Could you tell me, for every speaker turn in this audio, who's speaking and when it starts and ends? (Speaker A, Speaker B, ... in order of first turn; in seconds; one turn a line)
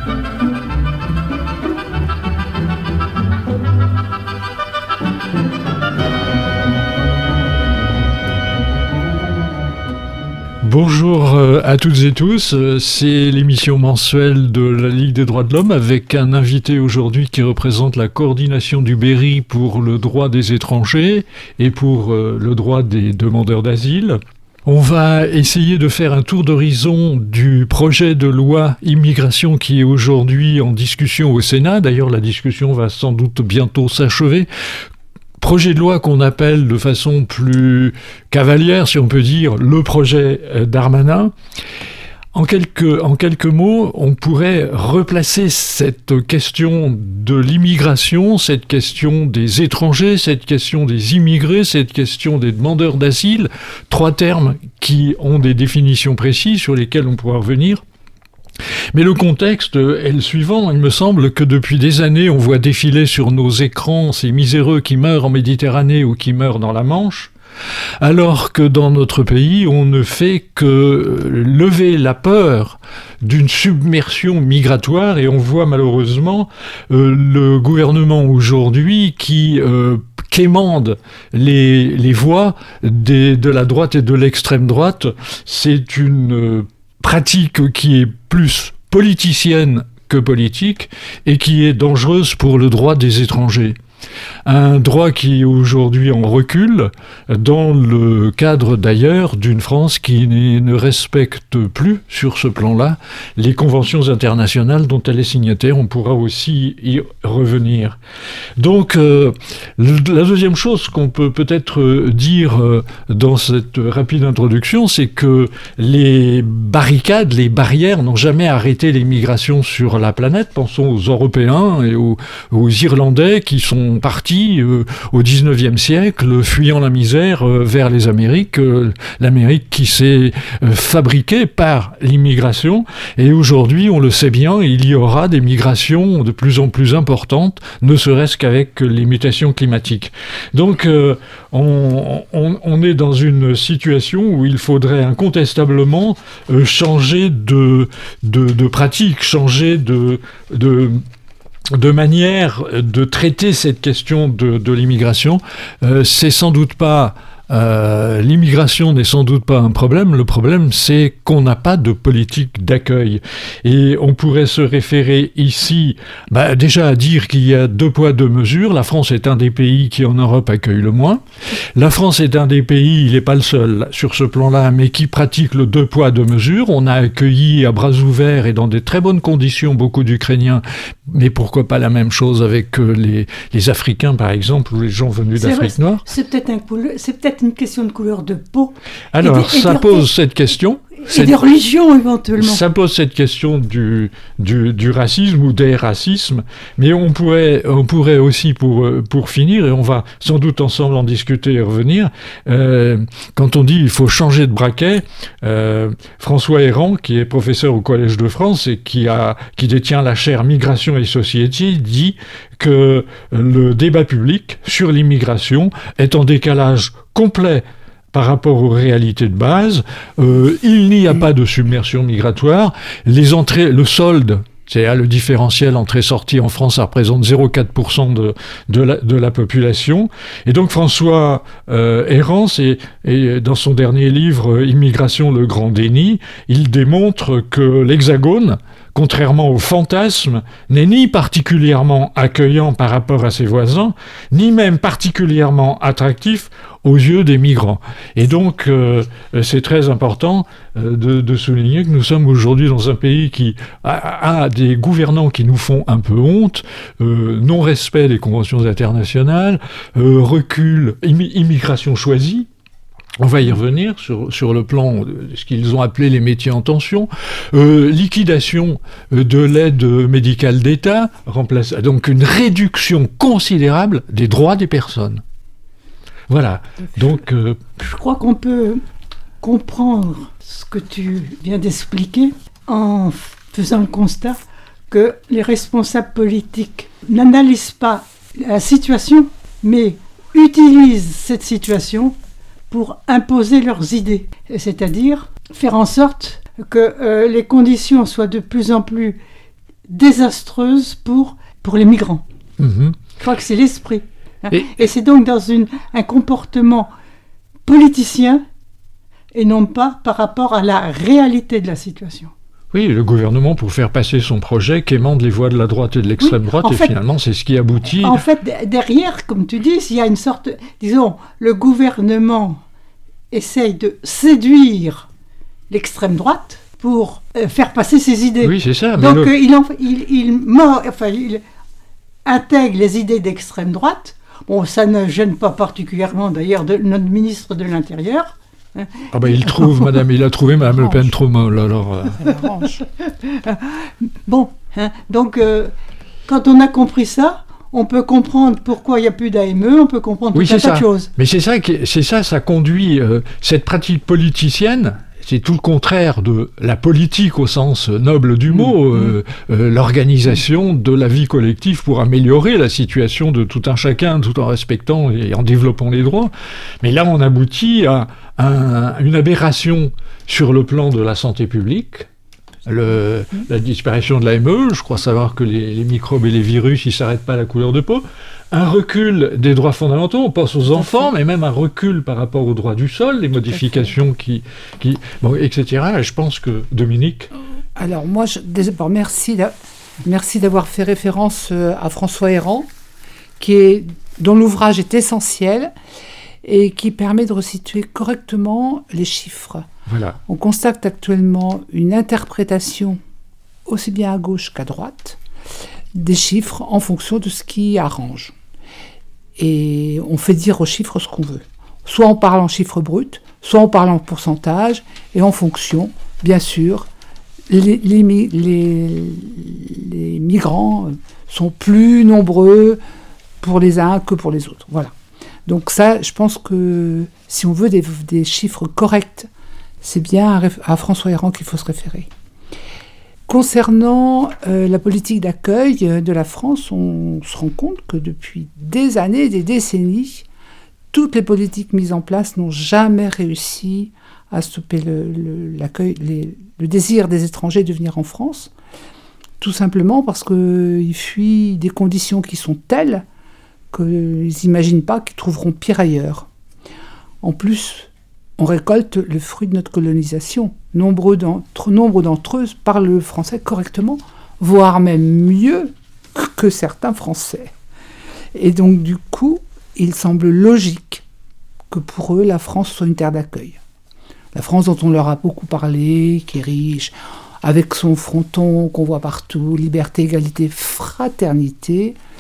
Speaker A: 10.6-34.5
Speaker A: 35.4-41.3
Speaker A: 42.3-57.8
Speaker A: 58.9-67.3
Speaker A: 68.0-93.8
Speaker A: 94.5-108.0
Speaker A: 108.6-151.0
Speaker A: 151.7-186.0
Speaker B: 185.4-190.1
Speaker A: 189.1-191.4
Speaker B: 191.1-192.6
Speaker A: 192.4-262.5
Speaker A: 263.2-275.2
Speaker A: 276.3-277.6
Speaker B: 277.8-278.8
Speaker B: 279.4-284.4
Speaker B: 284.9-292.2
Speaker B: 292.7-299.2
Speaker B: 299.9-302.2
Speaker A: 302.6-303.0
Speaker B: 303.2-306.9
Speaker A: 304.5-304.8
Speaker B: 307.6-308.4
Speaker B: 309.3-312.3
Speaker A: 312.7-318.2
Speaker B: 316.2-316.9
Speaker B: 318.0-322.6
Speaker B: 323.3-325.1
Speaker B: 325.7-331.4
Speaker A: 328.4-329.3
Speaker B: 332.2-339.9
Speaker A: 339.1-342.2
Speaker C: 340.7-341.1
Speaker C: 342.2-342.9
Speaker B: 343.2-345.7
Speaker B: 346.3-351.1
Speaker A: 350.3-372.1
Speaker A: 372.7-387.3
Speaker C: 387.8-392.7
Speaker C: 393.4-395.7
Speaker C: 396.4-399.7
Speaker A: 399.9-400.2
Speaker C: 400.3-403.0
Speaker C: 403.7-405.2
Speaker C: 405.9-408.4
Speaker C: 409.4-416.9
Speaker C: 417.5-422.8
Speaker C: 423.4-424.9
Speaker C: 425.5-429.3
Speaker C: 429.8-432.1
Speaker C: 433.3-440.3
Speaker C: 440.9-448.5
Speaker C: 449.4-453.1
Speaker C: 453.7-456.3
Speaker C: 457.2-467.5
Speaker C: 468.4-471.0
Speaker C: 471.7-473.6
Speaker C: 474.3-482.0